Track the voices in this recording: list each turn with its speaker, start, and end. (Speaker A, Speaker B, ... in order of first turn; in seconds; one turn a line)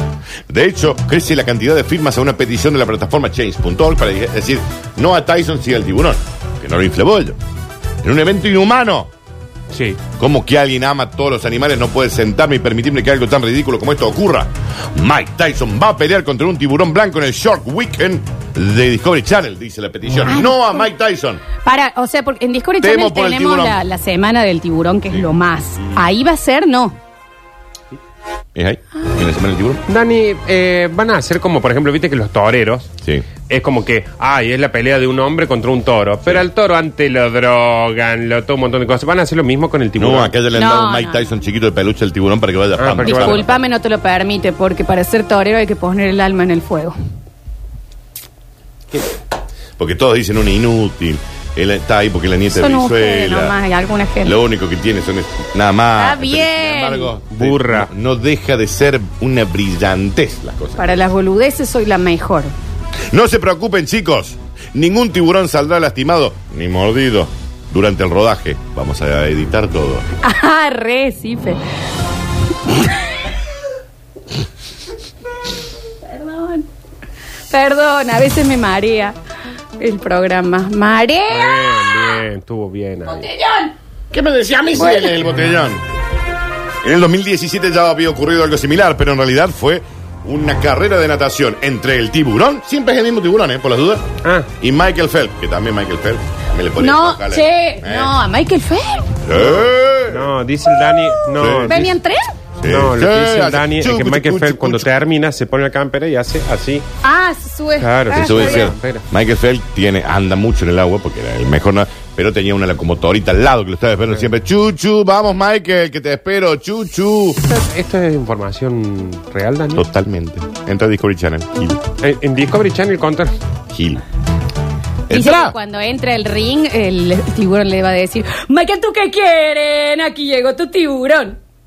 Speaker A: 0.5-7.4
Speaker A: 8.0-9.1
Speaker B: 9.7-10.0
Speaker A: 10.1-21.4
Speaker C: 20.2-20.9
Speaker C: 21.6-26.9
Speaker A: 22.8-23.8
Speaker A: 28.5-29.8
Speaker B: 29.9-32.9
Speaker A: 33.0-33.3
Speaker B: 33.5-40.3
Speaker A: 40.0-43.6
Speaker C: 40.5-41.3
Speaker B: 42.8-43.5
Speaker C: 43.0-46.9
Speaker A: 49.8-53.5
Speaker C: 52.5-54.4
Speaker A: 54.2-61.0
Speaker C: 56.0-57.1
Speaker B: 57.3-57.9
Speaker C: 60.8-62.5
Speaker A: 63.1-70.0
Speaker C: 70.2-71.6
Speaker C: 72.7-72.9
Speaker C: 76.0-76.7
Speaker C: 77.5-79.2
Speaker C: 79.8-82.2
Speaker B: 81.3-83.3
Speaker C: 83.1-83.7
Speaker A: 84.1-85.8
Speaker C: 84.8-85.2
Speaker A: 86.8-94.0
Speaker B: 94.2-94.5
Speaker A: 94.6-98.2
Speaker C: 96.8-99.2
Speaker A: 99.2-100.3
Speaker B: 99.3-102.0
Speaker A: 101.3-101.8
Speaker C: 101.6-102.3
Speaker A: 102.6-104.9
Speaker B: 102.7-106.8
Speaker C: 107.0-108.7
Speaker B: 107.8-109.0
Speaker A: 108.1-117.4
Speaker B: 117.4-119.8
Speaker A: 119.7-121.8
Speaker B: 122.0-123.3
Speaker A: 123.7-124.0
Speaker A: 125.1-125.6
Speaker C: 125.1-131.4